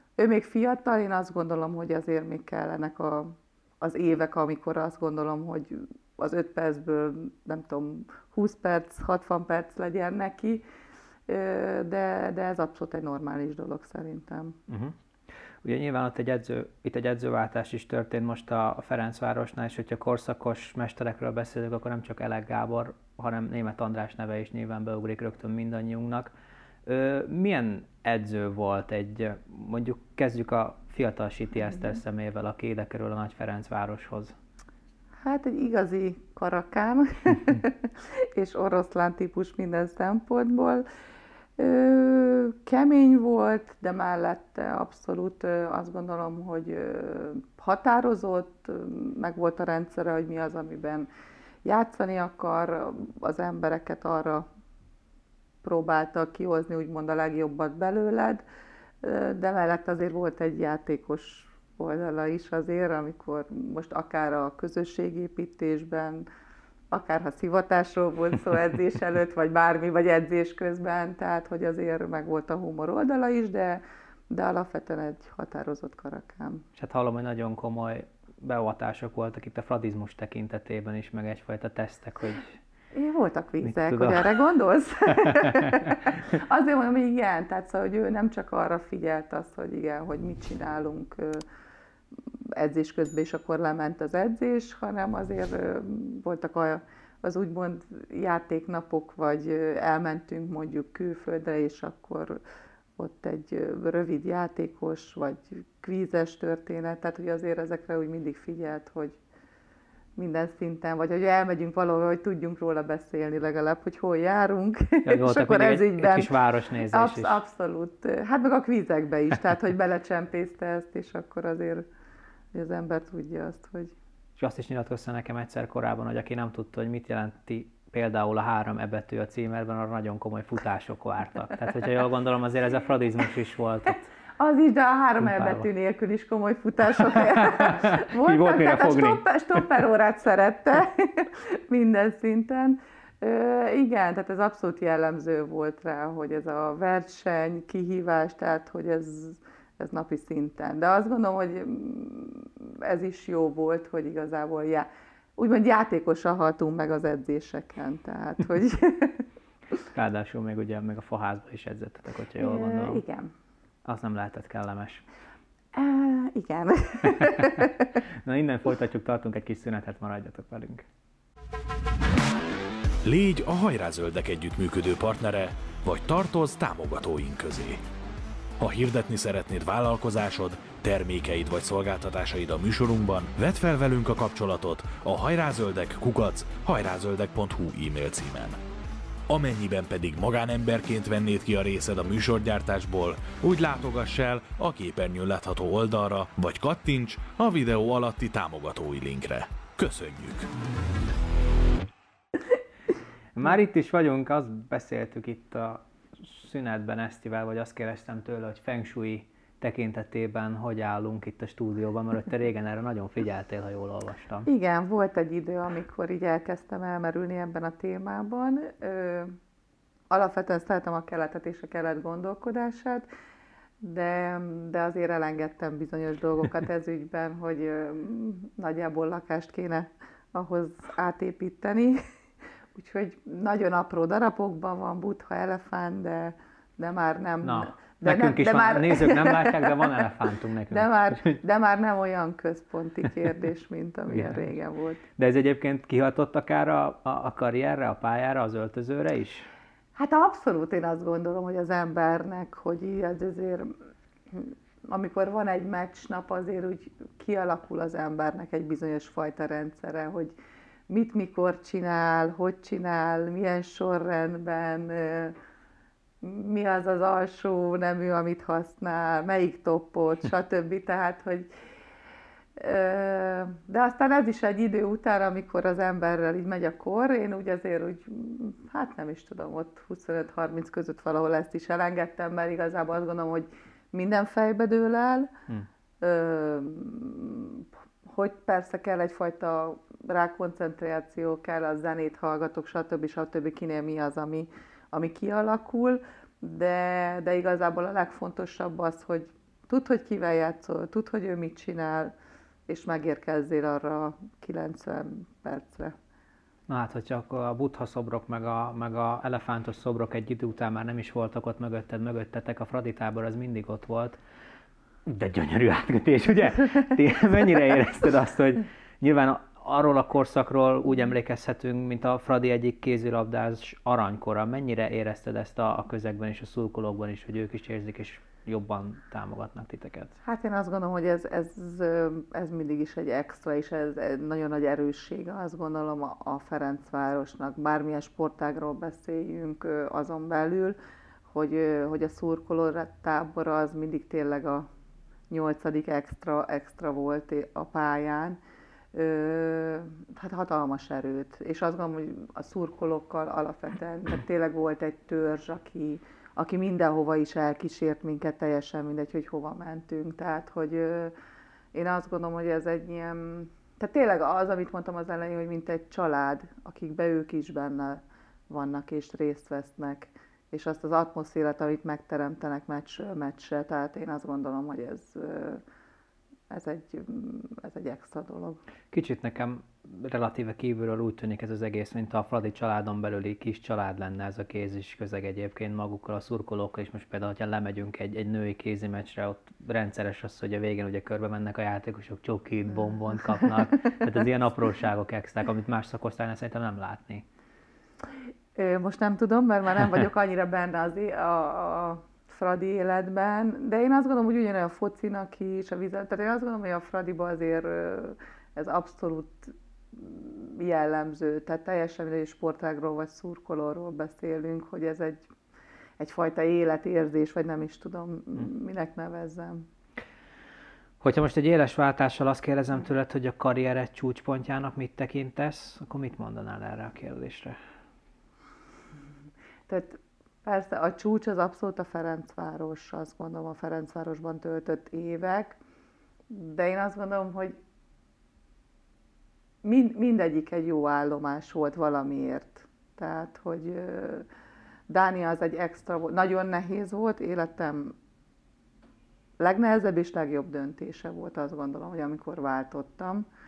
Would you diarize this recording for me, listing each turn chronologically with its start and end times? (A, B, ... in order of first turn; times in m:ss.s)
0:00.2-0:10.6 A
0:11.3-0:14.6 A
0:14.7-0:15.0 B
0:15.6-0:26.3 B
0:26.8-0:34.3 B
0:35.2-0:40.8 A
0:41.6-0:51.1 A
0:51.6-0:54.4 A
0:55.6-0:58.4 A
0:59.0-1:06.2 A
1:06.9-1:16.6 A
1:16.8-1:22.6 B
1:22.9-1:31.4 A
1:23.6-1:24.4 B
1:25.2-1:26.0 B
1:32.3-1:42.4 A
1:43.0-1:49.2 A
1:50.2-1:56.3 A
1:55.0-1:57.4 B
1:56.9-2:01.8 A
2:02.5-2:03.9 A
2:04.4-2:14.1 B
2:14.4-2:39.2 A
2:15.2-2:15.6 B
2:16.9-2:19.2 B
2:39.9-2:43.0 B
2:42.4-2:43.3 A
2:43.8-2:45.0 B
2:45.7-2:48.0 A
2:47.1-2:47.7 B
2:48.2-2:50.8 B
2:53.0-2:57.8 C
2:58.6-3:08.6 C
3:09.3-3:20.5 C
3:23.3-3:34.5 B
3:34.4-3:39.4 A
3:40.1-3:43.1 A
3:43.8-3:52.0 A
3:52.7-4:00.0 A
3:57.4-4:01.4 B
4:00.7-4:05.0 A
4:04.1-4:04.4 B
4:05.2-4:09.5 B
4:10.0-4:13.7 A
4:14.3-4:20.4 A
4:20.9-4:25.4 A
4:26.2-4:31.5 A
4:32.6-4:45.3 A
4:46.0-5:02.1 A
5:02.7-5:06.0 A
5:06.7-5:14.2 B
5:15.1-5:30.2 B
5:30.2-5:40.8 A
5:41.3-5:44.7 A
5:45.3-5:48.4 A
5:48.9-6:01.1 A
6:01.7-6:15.6 A
6:16.5-6:18.6 A
6:18.9-6:37.2 B
6:38.5-6:55.3 A
6:56.0-6:59.7 A
7:01.0-7:07.6 B
7:09.7-7:15.6 A
7:16.3-7:17.6 A
7:19.6-7:24.3 A
7:24.9-7:28.0 A
7:29.4-7:33.2 A